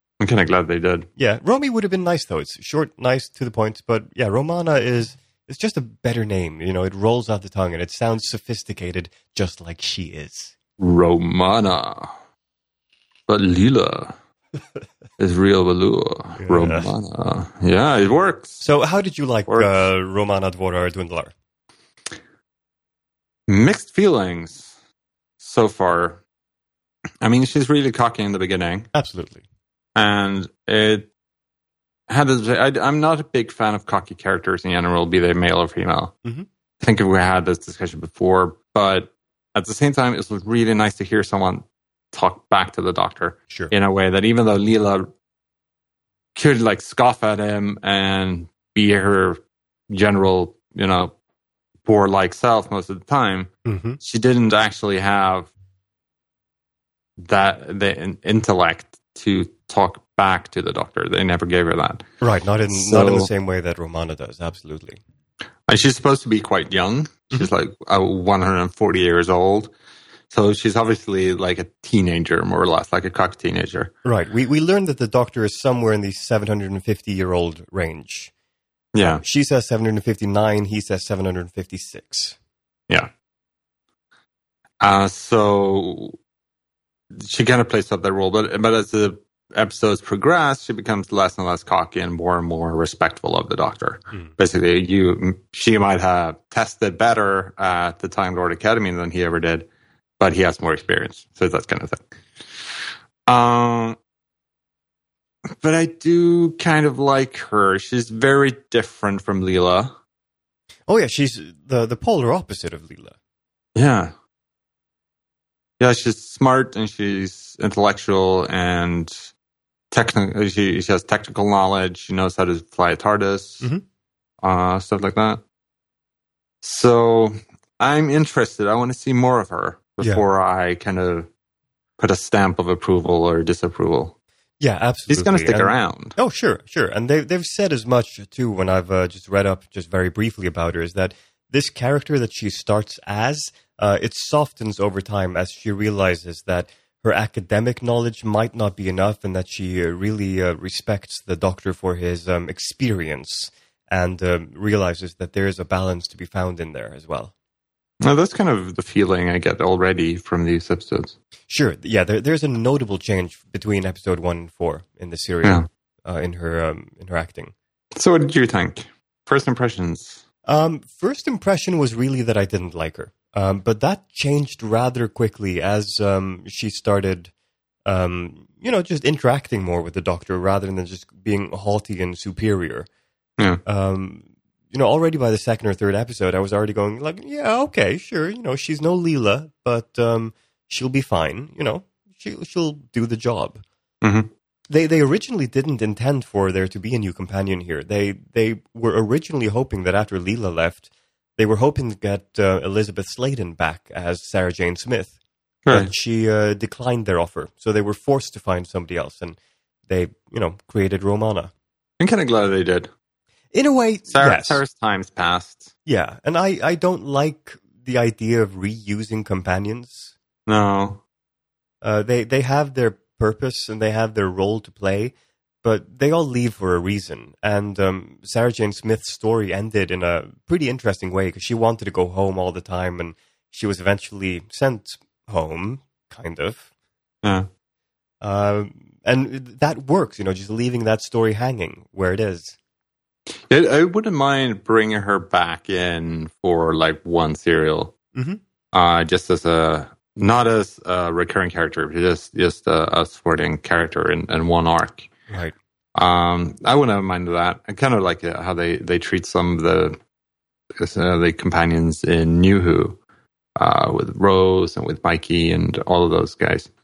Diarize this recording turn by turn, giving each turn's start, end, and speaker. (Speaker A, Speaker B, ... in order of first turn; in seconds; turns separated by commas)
Speaker A: 0.2-1.1, Speaker B: 1.2-10.5, Speaker A: 10.8-12.1, Speaker A: 13.3-14.2, Speaker A: 15.2-18.6, Speaker B: 16.4-16.9, Speaker B: 18.6-21.3, Speaker A: 19.5-19.8, Speaker A: 23.5-24.7, Speaker A: 25.4-26.2, Speaker A: 27.2-28.9, Speaker B: 28.9-29.4, Speaker A: 29.9-31.1, Speaker A: 32.1-36.1, Speaker A: 36.8-45.1, Speaker A: 46.3-51.1, Speaker A: 51.9-55.5, Speaker B: 53.6-54.0, Speaker A: 57.2-62.0, Speaker B: 62.2-65.0, Speaker A: 62.7-63.3, Speaker A: 65.7-69.7, Speaker A: 70.3-73.9, Speaker B: 74.0-78.3, Speaker A: 78.9-79.2, Speaker B: 79.2-82.3, Speaker A: 84.8-86.2, Speaker A: 87.2-99.7, Speaker A: 100.2-102.7, Speaker A: 103.3-104.0, Speaker A: 105.6-109.9, Speaker B: 110.9-113.2, Speaker A: 113.7-114.1, Speaker A: 115.8-119.3, Speaker A: 119.9-123.7, Speaker A: 124.4-125.4, Speaker A: 126.6-131.3, Speaker A: 132.0-134.1, Speaker B: 134.6-157.3, Speaker A: 135.1-136.2, Speaker A: 158.0-161.2, Speaker B: 161.5-167.5, Speaker A: 167.9-170.2, Speaker B: 170.4-177.3, Speaker B: 177.8-182.9, Speaker B: 183.6-193.6, Speaker A: 194.0-194.3, Speaker B: 194.7-205.1, Speaker A: 205.7-205.9, Speaker B: 205.7-209.4, Speaker B: 209.9-211.5, Speaker A: 212.0-212.9, Speaker B: 213.5-214.6, Speaker A: 214.1-215.7, Speaker B: 215.8-220.1, Speaker A: 220.5-221.0, Speaker B: 221.8-236.6, Speaker A: 237.2-237.5, Speaker B: 238.2-242.6, Speaker A: 243.5-247.9, Speaker B: 248.1-248.4, Speaker A: 248.7-255.1, Speaker B: 255.3-255.5, Speaker A: 255.9-260.0, Speaker A: 260.8-263.0, Speaker A: 263.6-266.7